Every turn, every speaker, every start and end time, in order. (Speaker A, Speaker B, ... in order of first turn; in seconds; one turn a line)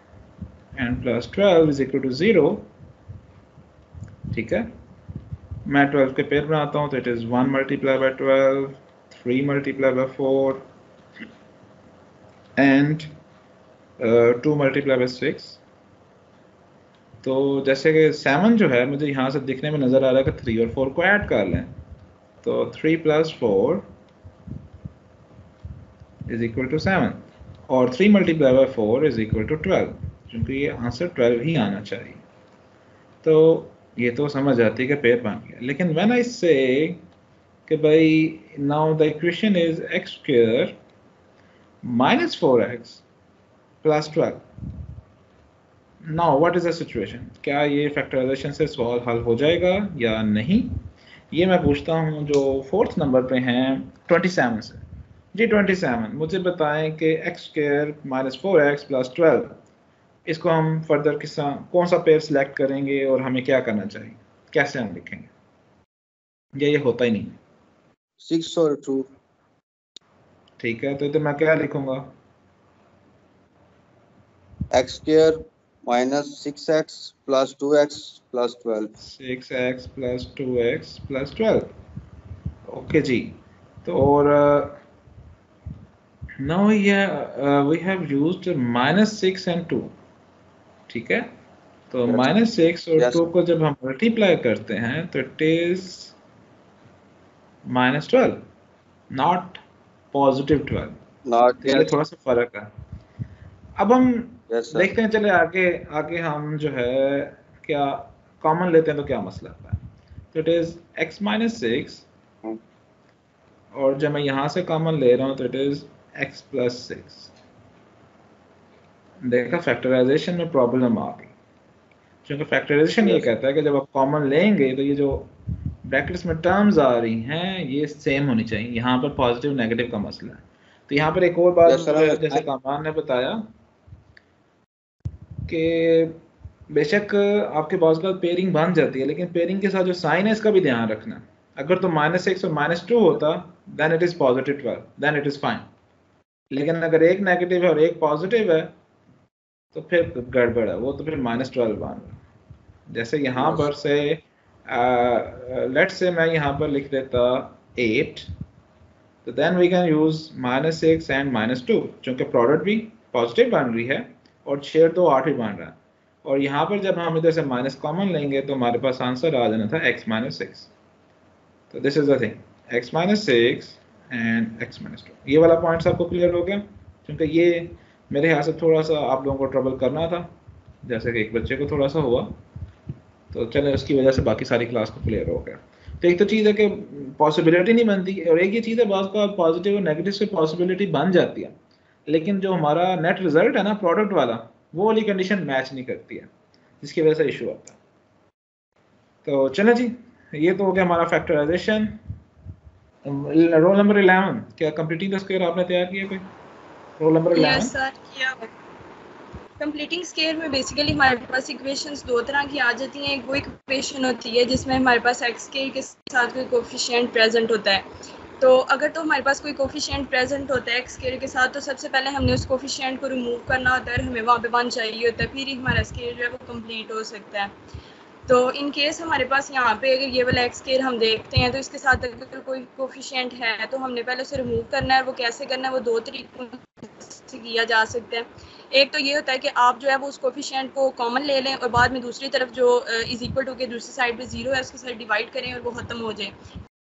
Speaker A: 0.7-2.7
Speaker A: 4.3-4.7
Speaker A: 5.7-10.7
Speaker A: 12.6-13.1
Speaker A: 14.0-15.6
Speaker A: 17.2-21.7
Speaker A: 22.4-23.9
Speaker A: 26.3-32.2
Speaker A: 33.2-37.0
Speaker A: 37.7-40.8
Speaker A: 41.8-43.0
Speaker A: 43.8-44.5
Speaker A: 46.0-54.8
Speaker A: 55.3-59.6
Speaker A: 60.2-65.3
Speaker A: 66.5-67.4
Speaker B: 68.2-69.1
Speaker A: 70.6-72.1
Speaker B: 74.7-78.9
Speaker A: 79.0-81.7
Speaker A: 82.7-84.8
Speaker A: 86.4-89.9
Speaker A: 90.9-91.3
Speaker A: 91.9-96.1
Speaker B: 93.0-93.2
Speaker A: 97.6-98.4
Speaker A: 99.1-99.6
Speaker A: 100.1-101.0
Speaker B: 101.2-101.9
Speaker A: 101.6-102.7
Speaker A: 103.8-109.8
Speaker B: 104.5-104.9
Speaker A: 110.3-112.1
Speaker A: 113.7-117.3
Speaker A: 119.2-121.3
Speaker A: 122.2-125.3
Speaker B: 123.0-123.3
Speaker A: 125.8-133.5
Speaker B: 131.7-132.4
Speaker A: 135.5-145.7
Speaker A: 146.5-148.7
Speaker A: 149.7-152.2
Speaker A: 152.9-158.3
Speaker A: 159.2-170.7
Speaker A: 171.7-180.3
Speaker A: 180.8-182.4
Speaker A: 183.3-191.6
Speaker A: 192.1-196.3
Speaker A: 196.8-197.8
Speaker A: 199.2-202.0
Speaker A: 203.0-206.3
Speaker A: 207.0-207.7
Speaker C: 207.3-208.5
Speaker C: 209.6-217.8
Speaker C: 218.4-227.5
Speaker C: 228.3-246.3